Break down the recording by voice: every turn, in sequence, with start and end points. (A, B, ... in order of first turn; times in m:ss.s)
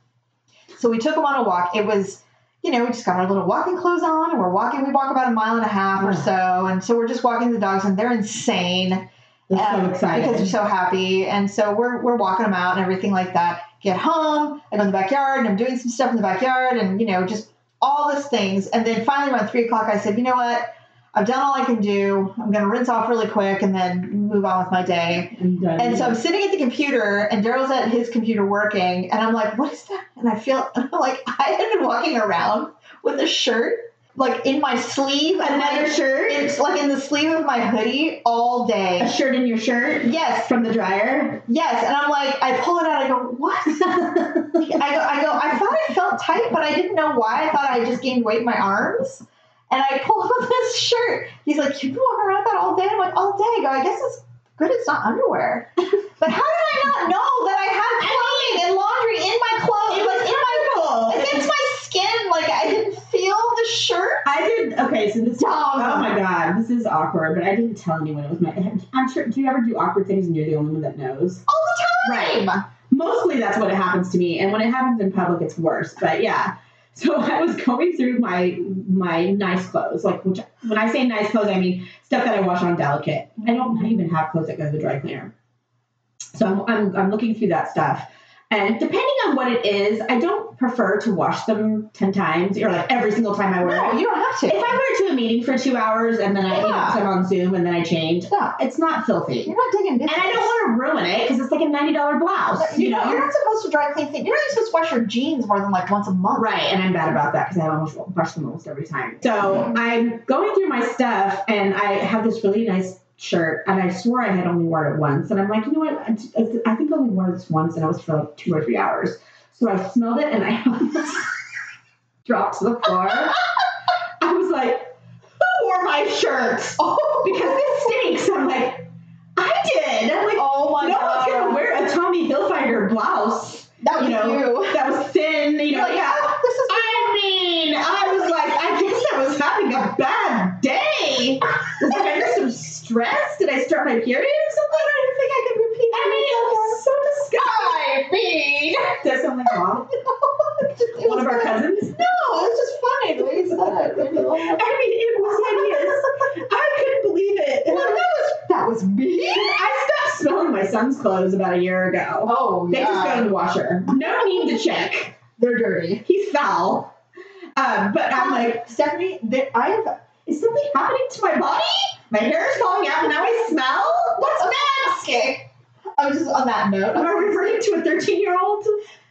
0:00.7-0:39.1 A
0:06.0-0:06.3 B
0:09.5-0:10.5 B
0:25.3-0:26.2 B
0:35.4-0:36.5 B
0:39.0-0:41.4 B
0:40.0-0:40.5 A
0:41.5-1:04.3 A
0:43.9-0:44.8 B
0:58.0-0:58.6 B
0:59.9-1:01.5 B
1:04.2-1:11.4 B
1:05.4-1:06.2 A
1:11.5-1:12.7 A
1:12.0-1:25.3 B
1:26.3-1:39.5 B
1:33.6-1:34.8 A
1:36.5-1:37.0 A
1:38.3-1:38.6 A
1:39.4-1:40.6 A
1:40.0-1:43.3 B
1:42.6-1:46.5 A
1:46.3-2:01.3 B
2:02.2-2:03.4 B
2:04.2-2:24.9 B
2:06.8-2:07.9 A
2:10.3-2:11.6 A
2:13.8-2:14.8 A
2:15.7-2:17.1 A
2:24.9-2:26.8 A
2:25.9-2:28.1 B
2:27.4-2:28.9 A
2:28.8-2:29.9 B
2:30.2-2:34.7 A
2:31.0-2:32.0 B
2:34.3-2:38.1 B
2:35.3-2:35.9 A
2:37.7-2:39.6 A
2:39.1-2:45.2 B
2:42.3-2:43.3 A
2:43.9-2:44.3 A
2:45.4-2:46.0 A
2:46.0-2:46.9 B
2:47.6-2:48.7 B
2:48.1-2:50.0 A
2:50.3-2:55.0 B
2:54.2-2:55.5 A
2:56.0-2:57.6 A
2:56.9-2:58.8 B